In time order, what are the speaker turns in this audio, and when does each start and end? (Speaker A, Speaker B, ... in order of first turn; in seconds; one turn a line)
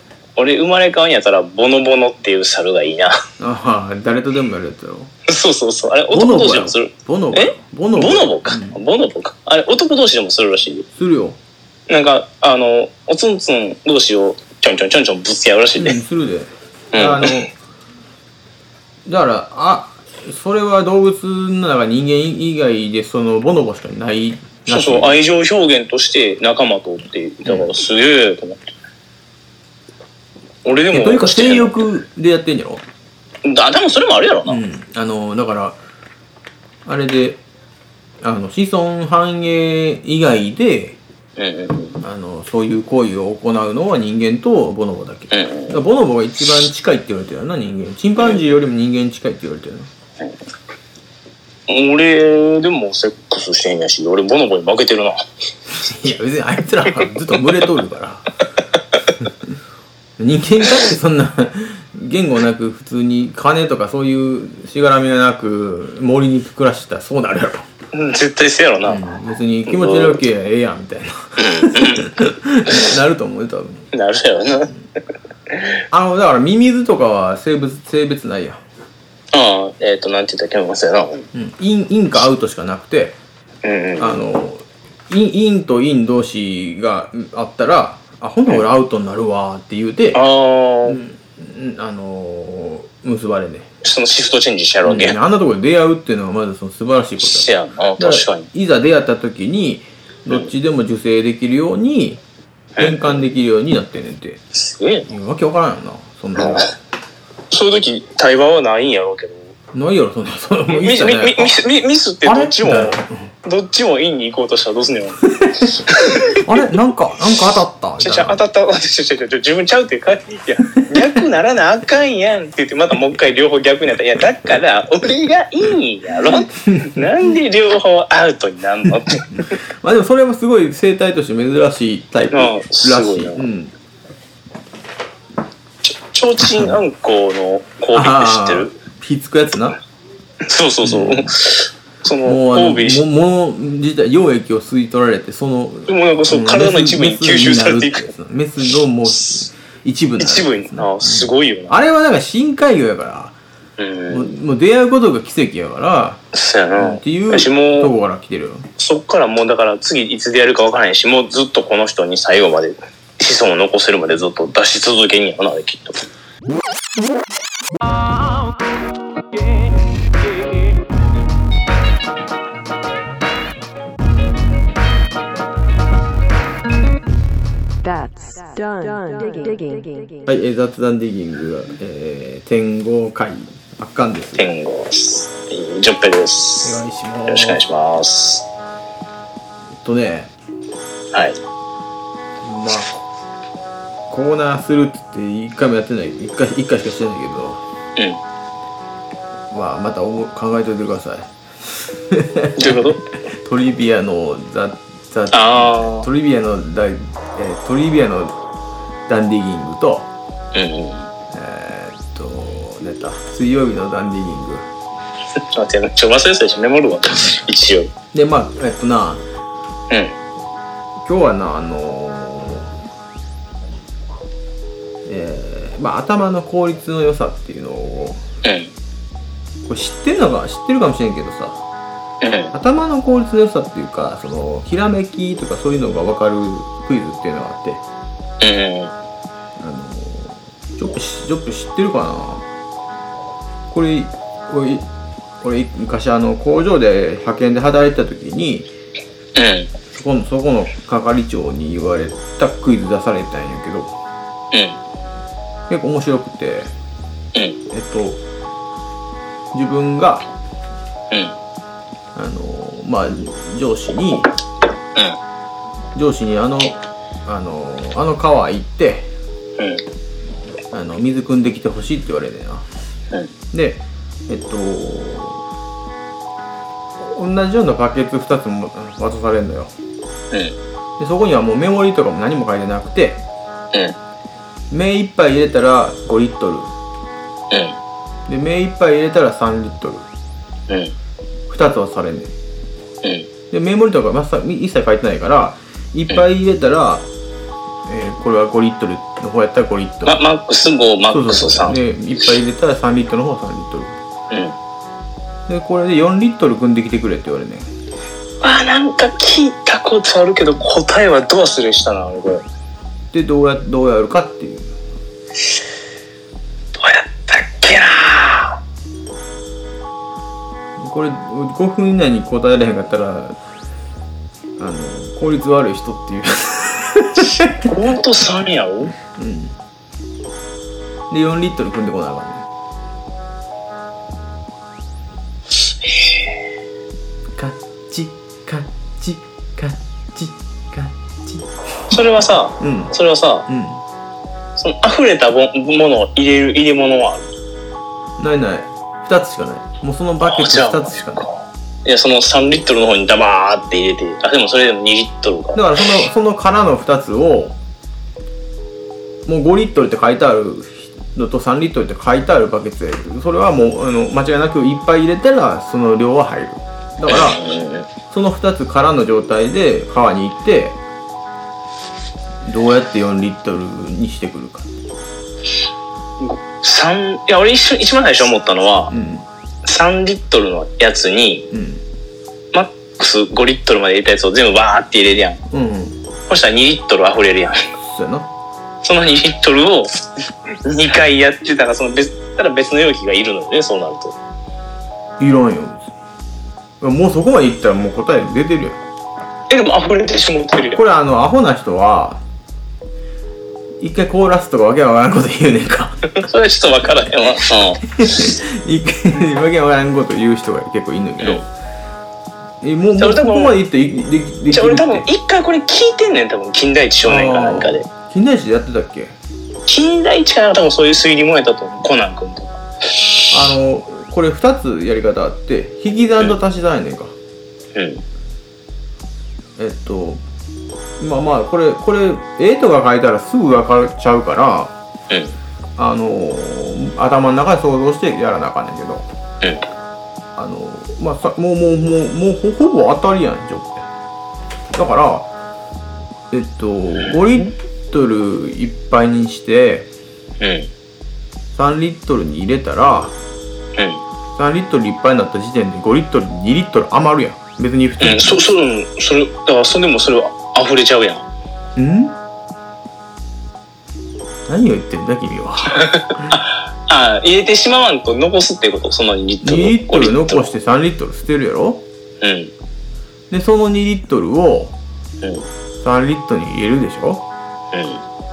Speaker A: 0.3-3.1
Speaker B: 3.4-5.1
Speaker A: 5.3-10.9
Speaker B: 6.1-8.8
Speaker B: 10.9-11.4
Speaker A: 11.9-16.0
Speaker B: 15.8-17.5
Speaker A: 16.9-17.5
Speaker B: 19.1-25.1
Speaker A: 24.7-28.6
Speaker A: 30.6-31.7
Speaker B: 30.9-32.8
Speaker A: 33.4-34.6
Speaker B: 34.5-35.8
Speaker B: 36.9-37.4
Speaker B: 38.2-41.0
Speaker A: 41.4-42.0
Speaker B: 42.0-49.9
Speaker A: 45.3-45.8
Speaker A: 51.7-55.2
Speaker B: 55.8-58.3
Speaker B: 60.2-67.7
Speaker A: 67.9-69.0
Speaker B: 68.8-73.9
Speaker A: 69.7-70.2
Speaker A: 71.4-72.1
Speaker A: 73.9-74.7
Speaker A: 75.5-75.8
Speaker B: 75.9-78.6
Speaker A: 79.3-81.3
Speaker B: 81.3-83.2
Speaker A: 83.6-84.2
Speaker B: 84.0-90.2
Speaker A: 90.1-91.0
Speaker B: 90.8-93.7
Speaker A: 93.8-95.2
Speaker B: 94.8-102.2
Speaker A: 97.2-98.5
Speaker A: 102.8-103.2
Speaker B: 102.8-104.4
Speaker A: 104.5-105.1
Speaker B: 105.1-106.7
Speaker A: 106.3-106.6
Speaker A: 107.5-109.5
Speaker B: 109.7-111.6
Speaker A: 110.7-115.2
Speaker B: 112.2-113.3
Speaker B: 115.4-118.4
Speaker A: 115.9-116.6
Speaker A: 118.0-129.5
Speaker B: 126.5-127.0
Speaker B: 129.8-133.7
Speaker A: 132.3-133.4
Speaker A: 135.8-138.7
Speaker B: 136.4-136.8
Speaker B: 137.9-139.8
Speaker A: 140.4-143.0
Speaker B: 140.8-141.3
Speaker B: 142.2-153.3
Speaker A: 145.9-148.1
Speaker A: 150.2-151.8
Speaker A: 153.8-154.3
Speaker B: 154.1-156.2
Speaker A: 156.3-157.9
Speaker B: 156.8-158.7
Speaker A: 158.8-166.0
Speaker C: 177.8-180.2
Speaker B: 180.2-184.5
Speaker A: 184.3-186.7
Speaker B: 186.6-187.6
Speaker A: 187.3-188.4
Speaker B: 189.8-190.3
Speaker A: 191.1-191.4
Speaker B: 192.4-193.0
Speaker B: 194.1-197.6
Speaker B: 199.5-201.3
Speaker B: 201.9-208.3
Speaker A: 202.6-203.0
Speaker A: 205.3-206.1
Speaker B: 209.1-210.1
Speaker A: 210.5-211.1
Speaker B: 211.3-214.6
Speaker A: 215.4-217.9
Speaker B: 218.1-219.2
Speaker A: 219.9-220.1
Speaker B: 221.0-222.7
Speaker B: 225.1-228.2
Speaker A: 228.4-228.7
Speaker B: 229.7-231.6
Speaker A: 232.2-232.5
Speaker B: 232.5-237.8
Speaker A: 238.4-238.9
Speaker B: 239.6-242.4
Speaker B: 243.7-244.8
Speaker B: 245.4-248.7
Speaker A: 249.3-249.7
Speaker B: 249.9-253.9
Speaker A: 254.5-254.8
Speaker B: 255.7-256.7
Speaker B: 257.7-258.2
Speaker B: 259.5-260.2
Speaker B: 262.1-264.3
Speaker B: 265.9-269.1
Speaker A: 269.6-269.8
Speaker B: 270.7-272.6
Speaker B: 273.5-275.4
Speaker B: 277.0-279.7
Speaker B: 281.0-283.2
Speaker B: 284.7-286.7
Speaker A: 287.5-287.8
Speaker B: 288.3-290.1
Speaker A: 290.7-290.9
Speaker B: 291.5-292.3
Speaker A: 293.0-293.3
Speaker B: 293.5-297.1
Speaker B: 297.9-300.2
Speaker A: 300.1-301.8
Speaker B: 301.1-304.0
Speaker A: 304.3-304.6
Speaker B: 305.5-307.7
Speaker A: 308.4-312.4
Speaker B: 313.1-314.8
Speaker A: 316.8-318.6
Speaker B: 320.8-323.4
Speaker B: 324.6-327.7
Speaker A: 327.6-328.9
Speaker B: 329.1-329.5
Speaker B: 331.1-332.4
Speaker B: 337.4-341.9
Speaker A: 341.9-343.4
Speaker B: 342.6-342.9
Speaker B: 343.5-343.8
Speaker A: 344.6-347.3
Speaker B: 348.2-351.3
Speaker A: 350.2-355.6
Speaker B: 355.5-357.6
Speaker B: 359.2-367.4
Speaker A: 367.1-367.9
Speaker B: 368.1-370.8
Speaker B: 372.4-374.7
Speaker A: 376.2-378.9
Speaker B: 378.9-379.2
Speaker A: 379.6-381.4
Speaker B: 381.5-381.8
Speaker A: 382.5-385.4
Speaker B: 385.5-385.9
Speaker A: 386.3-387.6
Speaker B: 387.8-388.3
Speaker A: 388.8-394.1
Speaker B: 395.2-395.9
Speaker B: 396.8-398.8
Speaker A: 399.5-400.8
Speaker B: 400.7-402.2
Speaker B: 403.8-406.1
Speaker A: 406.2-408.3
Speaker B: 407.9-411.4
Speaker A: 411.2-411.4
Speaker B: 412.6-415.1
Speaker A: 413.0-413.6
Speaker A: 414.5-417.8
Speaker B: 417.0-419.1
Speaker A: 419.6-423.2
Speaker B: 423.3-427.1
Speaker A: 427.7-428.0
Speaker B: 429.6-430.2
Speaker B: 431.0-434.7
Speaker A: 435.1-435.4
Speaker B: 435.8-439.0
Speaker B: 440.4-443.8
Speaker B: 444.7-445.3
Speaker B: 446.3-449.9
Speaker A: 446.9-447.5
Speaker A: 450.4-450.7
Speaker B: 451.5-453.1
Speaker A: 453.8-454.0
Speaker B: 454.4-458.4
Speaker A: 458.0-461.2
Speaker B: 461.8-462.1
Speaker B: 464.5-466.4
Speaker A: 465.8-470.5
Speaker B: 469.4-471.8
Speaker A: 472.2-472.5
Speaker B: 473.3-474.7
Speaker A: 475.2-475.5
Speaker B: 475.8-477.2
Speaker A: 477.7-478.0